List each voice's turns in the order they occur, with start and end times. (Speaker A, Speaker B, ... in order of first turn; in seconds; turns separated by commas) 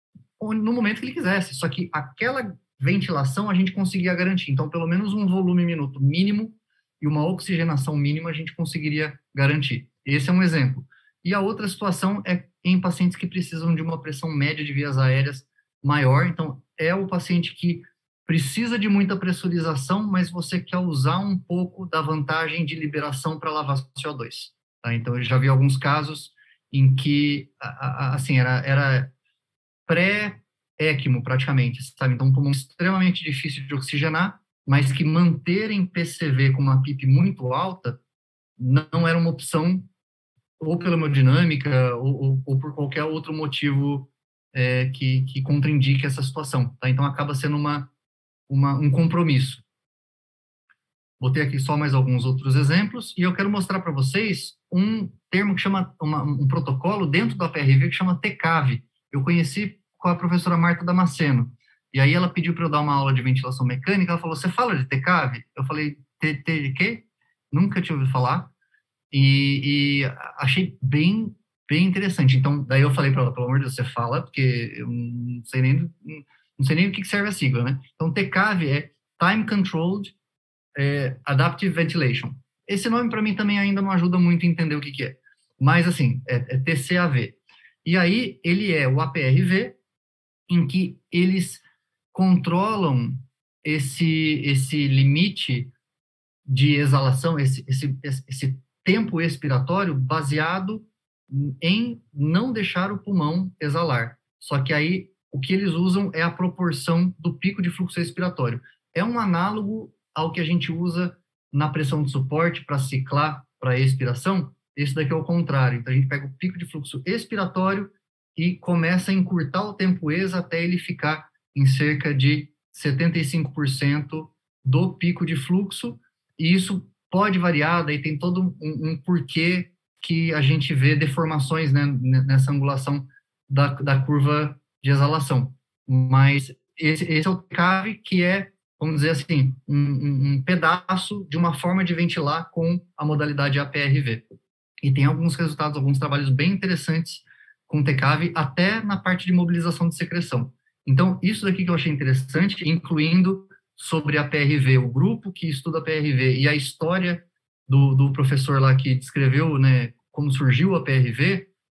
Speaker A: 0.4-29.1, Speaker A: 29.9-38.0, Speaker A: 38.6-39.9, Speaker A: 40.6-47.9, Speaker A: 48.5-49.6, Speaker A: 51.2-68.5, Speaker A: 69.1-80.2, Speaker A: 80.8-89.8, Speaker A: 90.5-95.7, Speaker A: 96.5-161.5